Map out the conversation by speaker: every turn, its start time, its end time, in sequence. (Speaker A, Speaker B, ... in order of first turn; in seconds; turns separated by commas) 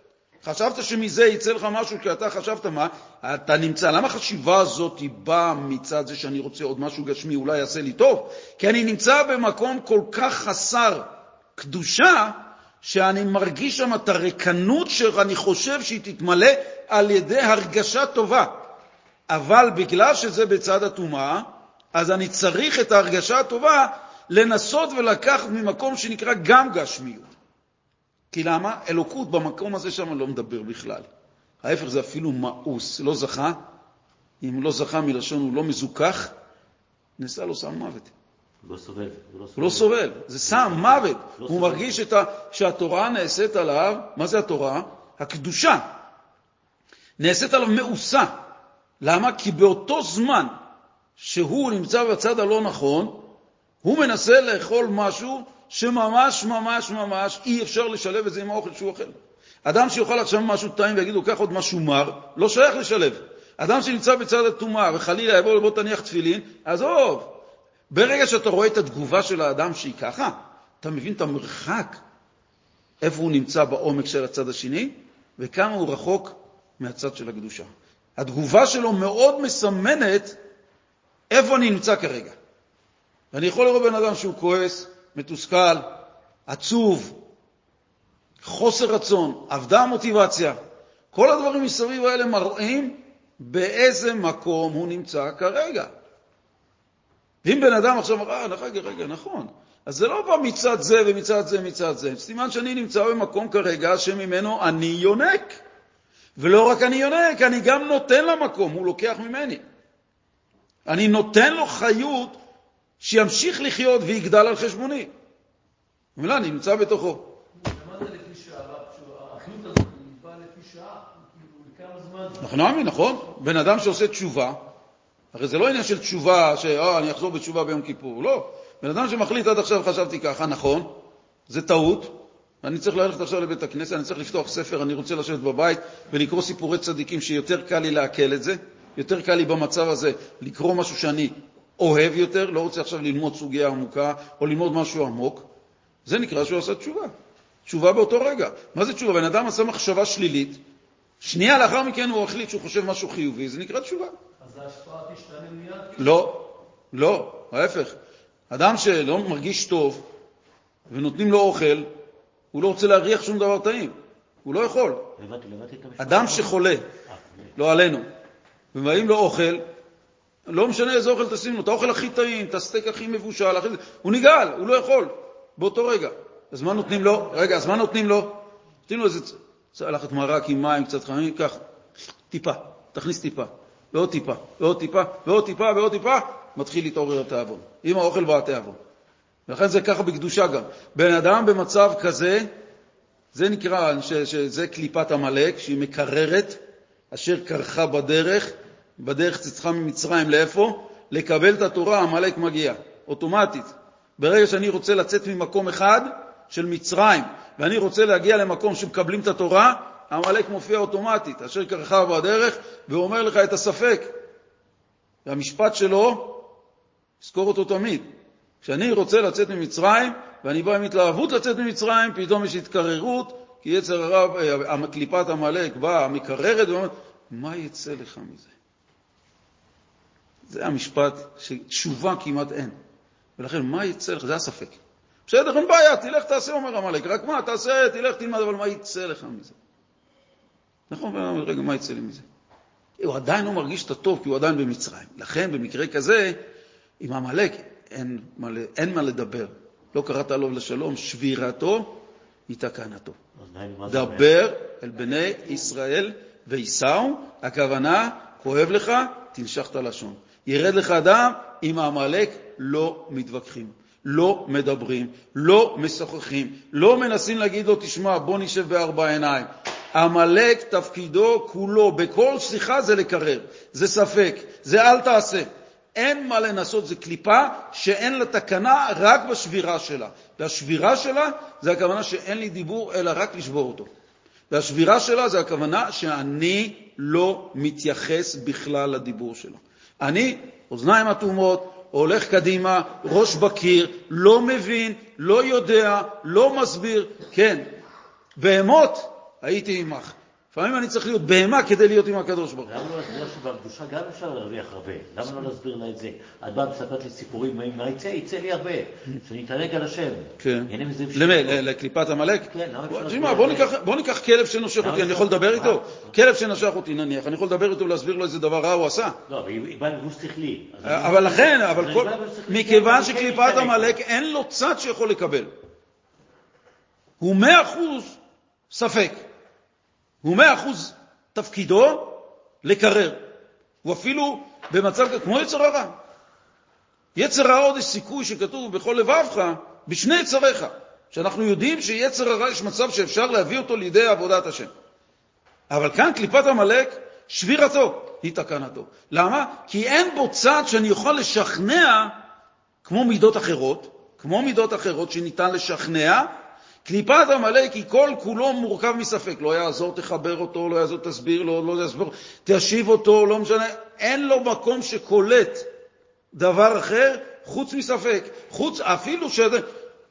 Speaker A: 0.4-18.6, Speaker A: 19.3-27.3, Speaker A: 28.3-31.1, Speaker A: 31.6-33.6, Speaker A: 34.4-36.3, Speaker A: 37.2-38.1, Speaker B: 38.6-41.9, Speaker A: 39.6-45.9, Speaker A: 47.2-48.4, Speaker A: 49.0-50.5, Speaker A: 51.2-53.3, Speaker A: 53.8-59.1, Speaker A: 59.6-67.4, Speaker A: 67.9-72.0, Speaker A: 73.0-80.4, Speaker A: 81.3-82.3, Speaker A: 83.3-87.2, Speaker A: 88.4-90.6, Speaker A: 91.1-95.9, Speaker A: 97.4-105.6, Speaker A: 106.4-109.6, Speaker A: 110.8-112.4, Speaker A: 113.0-115.1, Speaker A: 116.2-117.3, Speaker C: 117.5-122.5, Speaker A: 122.4-124.6, Speaker A: 125.3-130.9, Speaker A: 131.5-145.4, Speaker A: 146.0-147.1, Speaker A: 147.7-150.6, Speaker A: 151.2-154.1, Speaker C: 154.4-156.3, Speaker A: 156.0-157.9, Speaker A: 158.5-160.0, Speaker A: 160.9-161.9, Speaker A: 162.5-165.1, Speaker B: 165.2-167.5, Speaker A: 166.0-166.8, Speaker A: 167.6-168.1, Speaker A: 168.7-169.6, Speaker A: 170.5-181.6, Speaker A: 182.3-188.8, Speaker A: 189.5-192.5, Speaker A: 193.3-196.6, Speaker A: 197.1-214.1, Speaker A: 215.2-216.5, Speaker A: 217.2-218.1, Speaker A: 218.6-228.5, Speaker A: 230.5-232.8, Speaker A: 233.4-239.5, Speaker A: 240.9-242.2, Speaker A: 243.0-246.4, Speaker A: 247.0-253.2, Speaker B: 253.4-254.3, Speaker A: 253.9-283.9, Speaker A: 284.5-297.7, Speaker A: 298.4-302.7, Speaker B: 302.6-311.6, Speaker A: 310.4-319.2, Speaker B: 312.5-313.7, Speaker B: 314.8-316.1, Speaker B: 319.3-324.0, Speaker A: 320.8-325.5, Speaker A: 327.2-328.2, Speaker A: 328.7-329.2, Speaker A: 330.2-333.2, Speaker A: 333.8-336.0, Speaker A: 337.1-344.7, Speaker A: 345.7-352.2, Speaker A: 352.8-356.3, Speaker A: 356.8-365.7, Speaker A: 366.3-369.6